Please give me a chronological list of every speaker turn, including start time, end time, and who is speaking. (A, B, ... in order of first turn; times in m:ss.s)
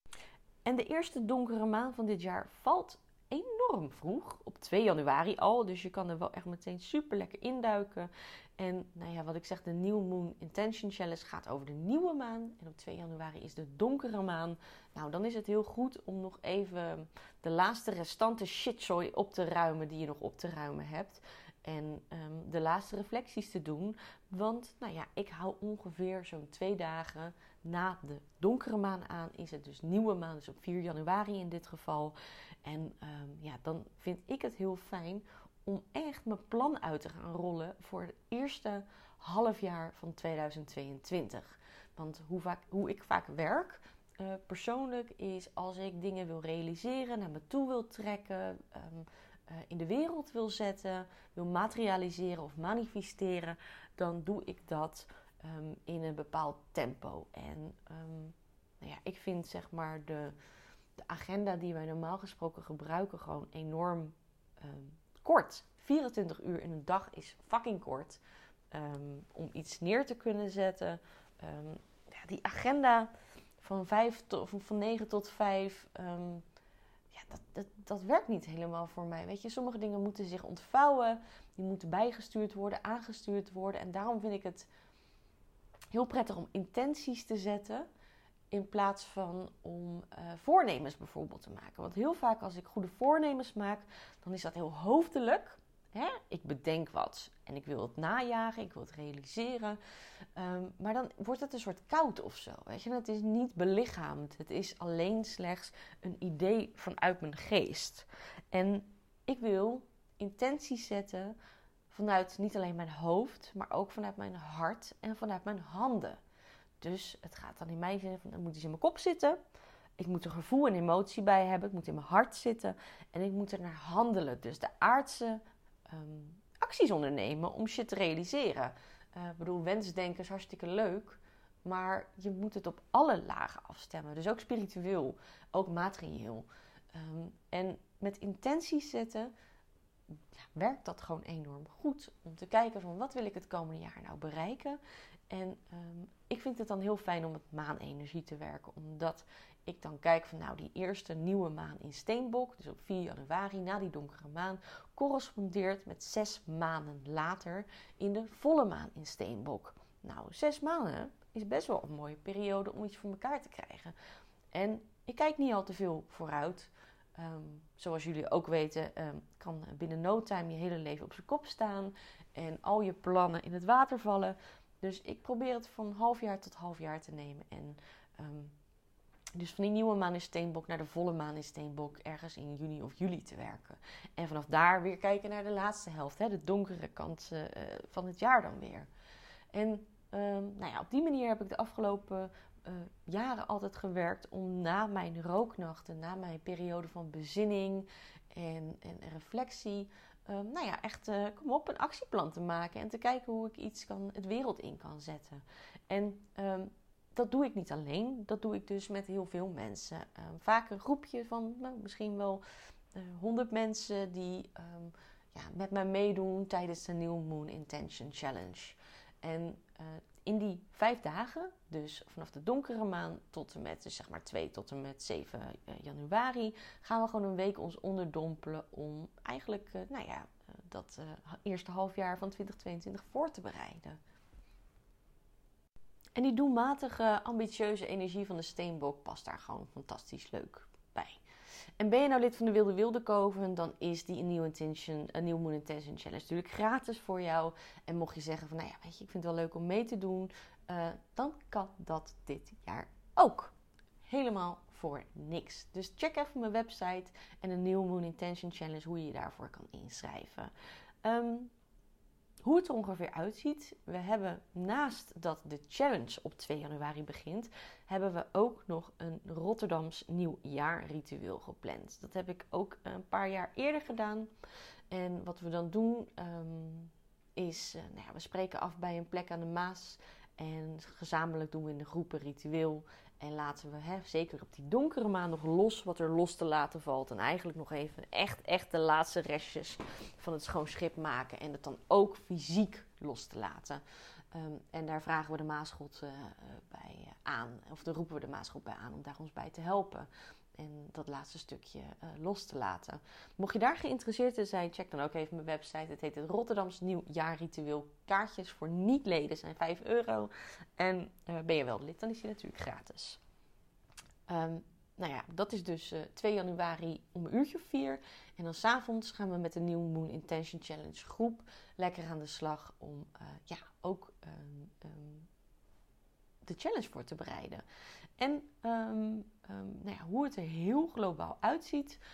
0:00.6-1:00.4 A
1:01.0-1:08.2 A
1:08.7-1:16.4 A
1:17.1-1:24.7 A
1:25.9-1:27.9 A
1:28.5-1:39.8 A
1:40.4-1:51.3 A
1:51.9-1:56.2 A
1:56.8-1:59.4 A
2:00.0-2:19.3 A
2:20.3-2:24.8 A
2:25.3-2:44.0 A
2:44.5-2:58.6 A
2:59.4-3:08.9 A
3:09.5-3:32.4 A
3:32.9-3:54.0 A
3:56.2-4:01.2 A
4:01.8-4:20.5 A
4:21.0-4:21.5 A
4:22.4-4:34.3 A
4:34.9-5:13.2 A
5:14.3-5:25.3 A
5:26.4-5:27.6 A
5:28.2-5:32.0 A